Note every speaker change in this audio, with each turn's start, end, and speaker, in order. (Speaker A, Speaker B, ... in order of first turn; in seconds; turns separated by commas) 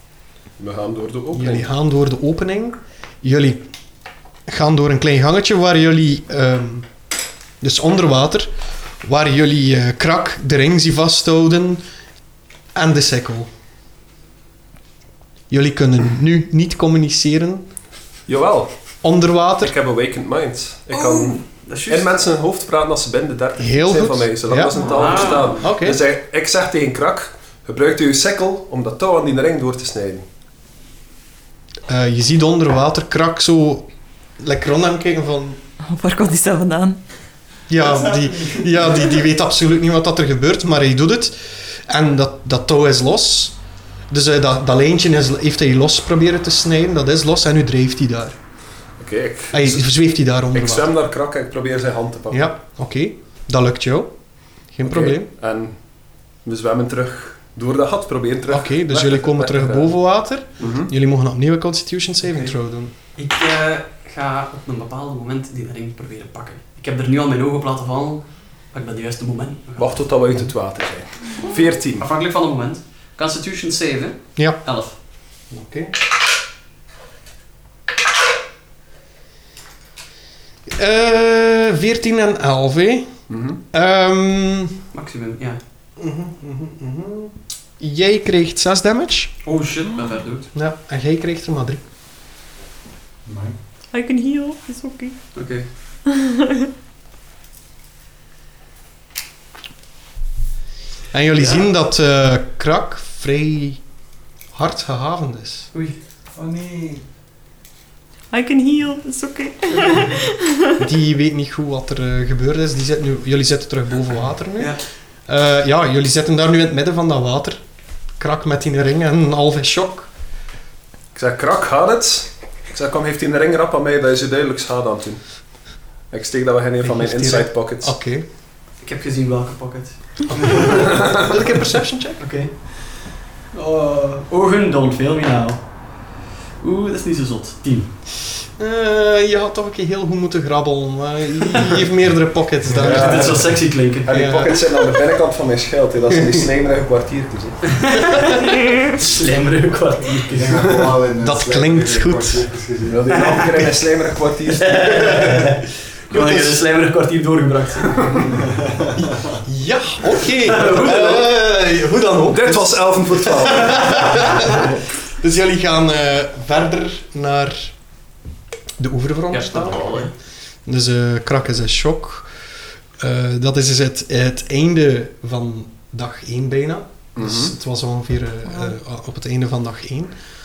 Speaker A: 0.6-1.6, Speaker B: 1.3-3.7, Speaker B: 4.5-6.9, Speaker B: 7.6-8.5, Speaker B: 9.0-11.8, Speaker B: 12.7-13.5, Speaker B: 15.5-17.7, Speaker A: 18.3-18.7, Speaker B: 19.0-19.7, Speaker A: 19.6-30.2, Speaker C: 20.9-22.2, Speaker B: 23.6-26.0, Speaker C: 24.7-25.7, Speaker B: 31.9-35.6, Speaker D: 35.8-37.0, Speaker B: 37.7-43.5, Speaker E: 37.8-38.8, Speaker B: 44.1-48.4, Speaker A: 49.0-49.9, Speaker B: 49.5-50.9, Speaker A: 50.5-52.5, Speaker B: 52.3-55.3, Speaker A: 54.8-55.8, Speaker A: 56.4-59.9, Speaker B: 58.5-62.9, Speaker A: 60.6-60.9, Speaker C: 62.2-62.5, Speaker C: 63.1-70.1, Speaker A: 69.8-72.0, Speaker C: 72.0-74.9, Speaker B: 74.3-74.6, Speaker B: 75.5-75.9, Speaker B: 80.7-83.2, Speaker A: 83.3-83.6, Speaker B: 83.7-84.7, Speaker C: 84.9-85.6, Speaker B: 86.0-89.3, Speaker C: 89.4-90.5, Speaker B: 90.5-91.8, Speaker E: 93.2-93.6, Speaker D: 93.9-95.2, Speaker C: 95.3-95.7, Speaker D: 96.0-96.7, Speaker B: 101.1-103.8, Speaker B: 104.5-105.7, Speaker E: 106.3-107.0, Speaker D: 108.3-110.7, Speaker B: 110.8-114.7, Speaker B: 115.3-117.6, Speaker B: 118.2-120.1, Speaker A: 121.1-125.2, Speaker A: 126.1-128.0, Speaker B: 126.8-128.2, Speaker C: 128.8-130.2, Speaker B: 130.3-132.2, Speaker A: 130.7-131.1, Speaker C: 132.2-133.0, Speaker C: 133.5-135.6, Speaker C: 136.6-137.9, Speaker B: 138.6-143.5, Speaker C: 142.8-144.1, Speaker A: 142.8-147.7, Speaker B: 144.1-144.6, Speaker C: 147.7-150.8, Speaker E: 150.3-153.3, Speaker B: 151.2-152.5, Speaker A: 152.9-155.4, Speaker C: 153.1-153.6, Speaker C: 154.5-158.3, Speaker B: 156.1-156.6, Speaker E: 158.5-159.2, Speaker B: 159.4-167.7, Speaker C: 160.4-161.3, Speaker A: 162.3-164.7, Speaker B: 168.8-170.1, Speaker C: 169.3-170.1, Speaker B: 170.7-172.3, Speaker B: 173.0-180.1, Speaker A: 177.1-177.5, Speaker D: 178.5-178.7